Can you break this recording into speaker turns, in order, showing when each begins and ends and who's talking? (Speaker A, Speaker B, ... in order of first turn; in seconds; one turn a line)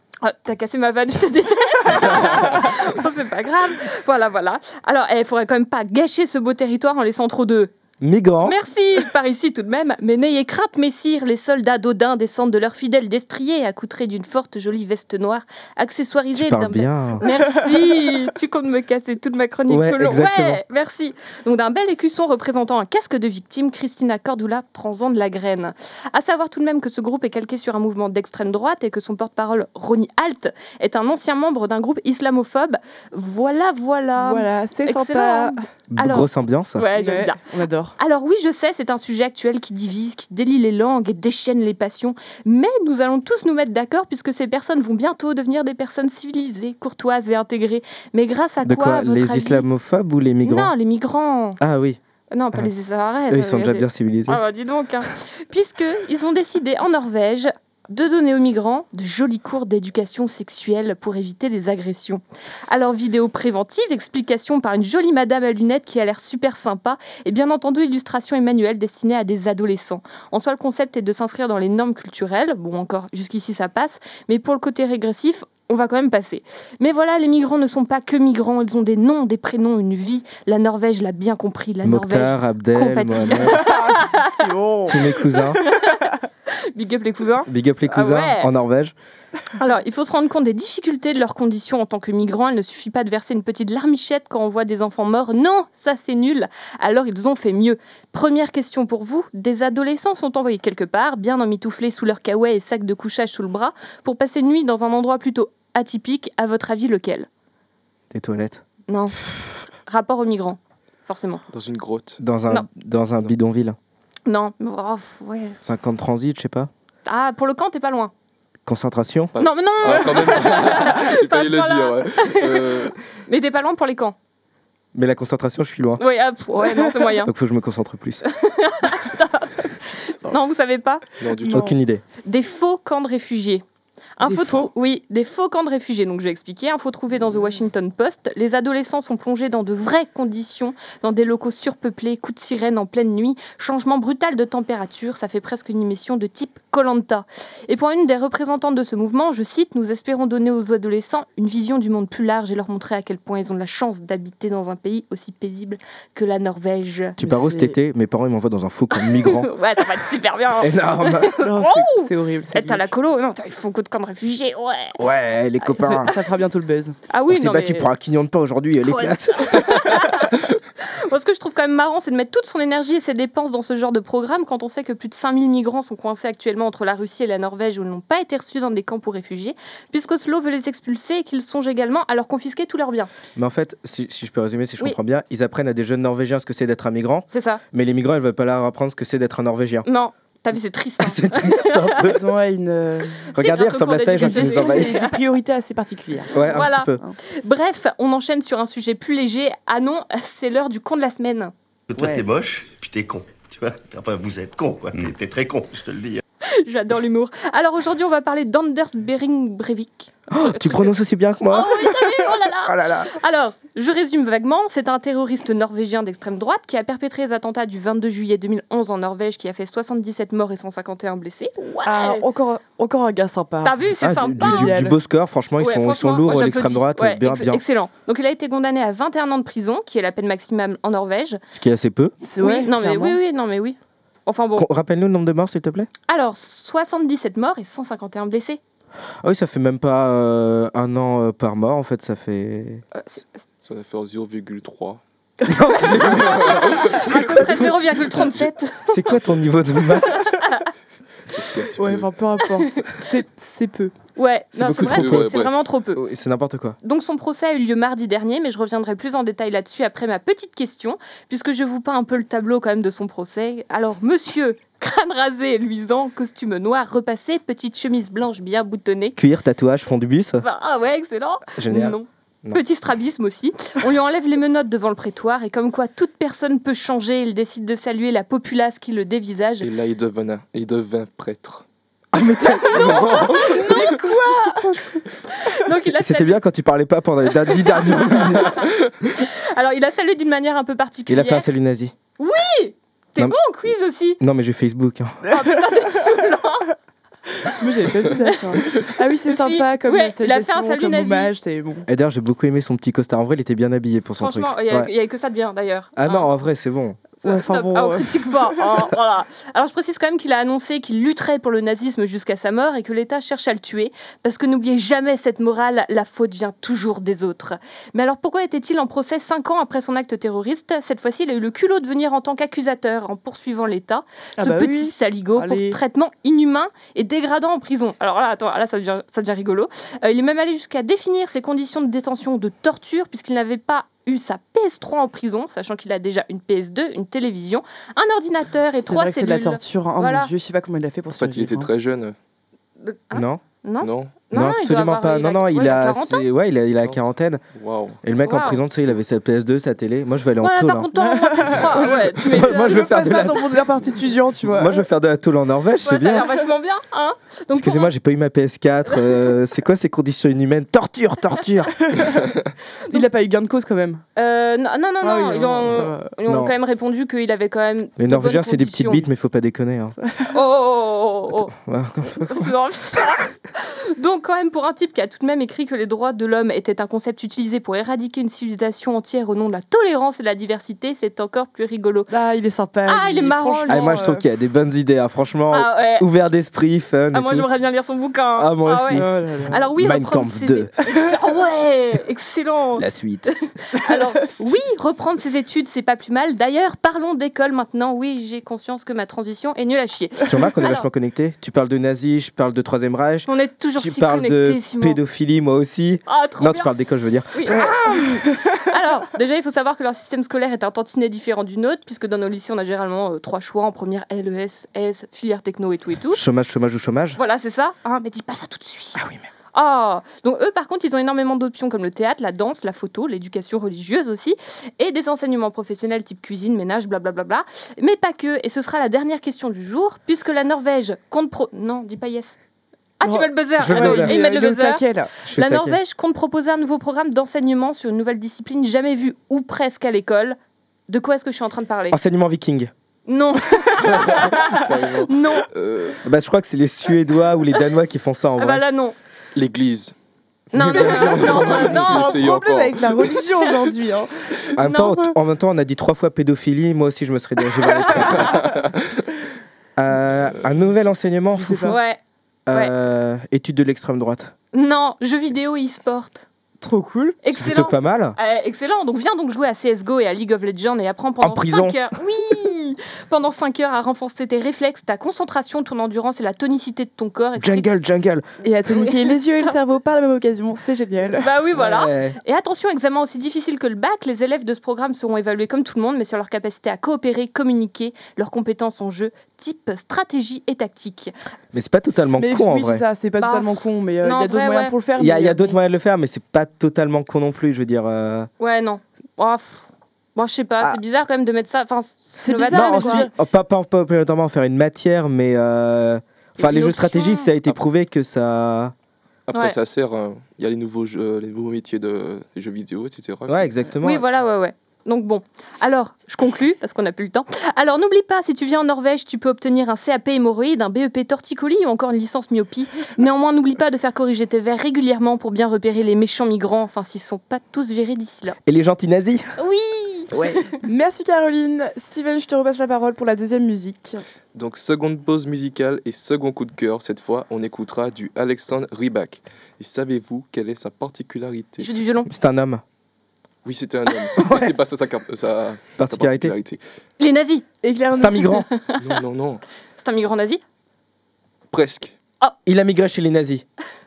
Speaker A: 0.2-7.7
Speaker B: 8.0-8.6
Speaker A: 8.4-37.4
Speaker B: 16.3-17.2
Speaker B: 19.7-20.6
Speaker C: 34.2-35.6
Speaker B: 35.9-36.9
Speaker C: 36.9-38.0
Speaker A: 38.0-49.7
Speaker B: 48.6-50.7
Speaker A: 50.4-51.6
Speaker B: 51.6-52.0
Speaker A: 52.3-84.5
Speaker B: 53.3-54.4
Speaker B: 81.8-83.7
Speaker C: 83.5-86.1
Speaker B: 84.9-85.6
Speaker A: 85.5-88.5
Speaker B: 87.5-88.9
Speaker A: 89.6-107.3
Speaker B: 108.1-108.6
Speaker A: 108.9-109.2
Speaker A: 109.9-111.4
Speaker D: 111.5-112.2
Speaker B: 112.2-113.8
Speaker A: 114.3-115.6
Speaker B: 115.6-116.7
Speaker A: 117.1-118.1
Speaker B: 118.7-119.3
Speaker D: 119.4-123.0
Speaker A: 119.4-124.2
Speaker B: 124.9-126.0
Speaker A: 126.0-127.3
Speaker B: 127.2-128.2
Speaker A: 128.2-131.1
Speaker D: 131.2-131.7
Speaker C: 131.4-131.7
Speaker B: 131.5-132.0
Speaker A: 132.2-133.6
Speaker A: 134.2-157.2
Speaker C: 134.2-134.7
Speaker B: 157.2-159.5
Speaker C: 157.2-157.8
Speaker A: 158.9-165.0
Speaker B: 160.6-161.3
Speaker C: 161.4-162.9
Speaker B: 165.0-166.2
Speaker C: 165.7-167.0
Speaker A: 167.1-167.9
Speaker B: 167.3-170.3
Speaker A: 168.8-183.1
Speaker B: 183.4-189.9
Speaker A: 187.3-187.6
Speaker A: 189.9-192.1
Speaker B: 191.0-192.2
Speaker C: 192.0-193.2
Speaker B: 193.3-195.0
Speaker A: 193.3-195.2
Speaker C: 194.2-197.2
Speaker B: 196.3-197.0
Speaker A: 196.5-201.5
Speaker E: 201.9-206.2
Speaker B: 202.0-202.2
Speaker A: 206.5-210.9
Speaker B: 210.3-213.1
Speaker A: 211.5-222.2
Speaker C: 221.8-223.8
Speaker A: 223.6-224.8
Speaker B: 224.0-227.6
Speaker C: 224.4-225.0
Speaker A: 225.6-231.4
Speaker B: 231.5-232.2
Speaker C: 232.2-233.2
Speaker A: 232.4-234.7
Speaker B: 234.6-235.9
Speaker A: 236.1-238.6
Speaker B: 239.2-242.8
Speaker A: 242.9-243.3
Speaker D: 243.6-245.0
Speaker B: 245.4-248.3
Speaker A: 246.1-249.2
Speaker D: 246.2-247.0
Speaker B: 248.8-250.3
Speaker A: 250.1-250.7
Speaker D: 251.3-252.1
Speaker C: 251.8-253.9
Speaker A: 252.6-253.1
Speaker A: 254.2-256.0
Speaker B: 254.5-255.4
Speaker D: 254.8-255.6
Speaker B: 255.9-256.8
Speaker A: 256.8-269.2
Speaker B: 269.2-270.4
Speaker A: 270.4-279.7
Speaker B: 271.6-272.6
Speaker D: 279.6-281.6
Speaker B: 282.1-283.5
Speaker A: 282.7-284.8
Speaker D: 282.7-283.8
Speaker C: 284.3-284.9
Speaker A: 285.3-286.4
Speaker B: 285.7-288.6
Speaker A: 287.5-291.5
Speaker B: 291.1-291.9
Speaker A: 292.2-294.2
Speaker B: 294.2-295.2
Speaker A: 295.3-296.7
Speaker C: 297.4-301.9
Speaker A: 298.1-301.3
Speaker B: 301.9-304.9
Speaker A: 304.2-306.3
Speaker B: 306.0-307.2
Speaker A: 307.2-340.3
Speaker C: 307.2-308.7
Speaker C: 324.4-325.8
Speaker C: 338.8-341.7
Speaker D: 341.1-342.2
Speaker A: 342.8-346.3
Speaker B: 343.1-343.4
Speaker D: 343.8-344.2
Speaker B: 344.3-347.4
Speaker D: 346.8-348.0
Speaker B: 348.0-350.9
Speaker A: 348.2-348.6
Speaker A: 350.4-352.9
Speaker C: 351.0-354.8
Speaker B: 351.4-351.7
Speaker B: 352.2-353.6
Speaker B: 354.4-356.3
Speaker A: 355.8-357.9
Speaker B: 357.5-361.8
Speaker C: 361.8-362.3
Speaker C: 362.9-364.0
Speaker A: 364.2-369.1
Speaker C: 365.0-366.1
Speaker B: 366.3-366.5
Speaker B: 368.0-370.0
Speaker A: 370.3-371.5
Speaker B: 371.5-372.5
Speaker A: 372.2-382.1
Speaker C: 382.1-384.2
Speaker A: 382.9-384.0
Speaker B: 383.7-387.5
Speaker A: 385.5-386.1
Speaker A: 387.1-400.9
Speaker B: 388.4-389.1
Speaker C: 388.9-389.6
Speaker B: 389.6-390.7
Speaker B: 392.8-393.3
Speaker C: 394.3-394.6
Speaker B: 400.3-407.7
Speaker A: 403.3-405.0
Speaker A: 406.1-406.7
Speaker A: 407.3-416.2
Speaker B: 416.1-417.2
Speaker A: 417.2-419.0
Speaker B: 418.9-419.2
Speaker A: 419.5-432.4
Speaker A: 433.0-440.4
Speaker C: 433.0-435.1
Speaker B: 433.6-434.2
Speaker B: 435.2-435.8
Speaker A: 440.9-442.0
Speaker B: 441.9-442.7
Speaker A: 443.1-445.5
Speaker D: 443.9-446.0
Speaker B: 446.0-448.6
Speaker A: 448.4-448.9
Speaker D: 449.4-449.9
Speaker A: 450.5-452.3
Speaker B: 450.5-452.0
Speaker D: 450.9-453.1
Speaker C: 451.9-454.1
Speaker B: 454.6-458.5
Speaker A: 454.6-455.1
Speaker D: 458.2-458.8
Speaker B: 459.8-461.8
Speaker C: 461.3-461.8
Speaker A: 461.7-462.0
Speaker B: 462.5-464.3
Speaker A: 464.5-466.2
Speaker C: 466.6-467.2
Speaker A: 467.2-477.7
Speaker B: 467.3-468.2
Speaker B: 471.2-471.8
Speaker B: 477.4-478.2
Speaker C: 478.4-481.3
Speaker A: 478.7-479.5
Speaker A: 481.2-491.1
Speaker B: 481.5-482.2
Speaker B: 491.5-492.9
Speaker C: 492.2-495.6
Speaker A: 493.2-493.5
Speaker A: 494.0-494.8
Speaker B: 495.0-498.3
Speaker A: 498.4-503.1
Speaker C: 502.2-503.1
Speaker B: 502.5-508.7
Speaker A: 506.4-507.3
Speaker D: 509.3-513.5
Speaker B: 513.3-514.0
Speaker A: 513.8-528.4
Speaker B: 528.5-529.3
Speaker A: 529.4-530.6
Speaker C: 530.1-534.0
Speaker D: 534.3-541.7
Speaker A: 541.6-542.1
Speaker B: 542.1-542.6
Speaker D: 543.5-546.6
Speaker B: 544.2-544.6
Speaker B: 545.8-546.4
Speaker A: 547.0-547.5
Speaker C: 547.6-548.5
Speaker B: 547.9-548.5
Speaker A: 548.3-549.0
Speaker D: 548.8-549.4
Speaker A: 549.8-550.4
Speaker D: 551.5-552.0
Speaker B: 552.5-553.5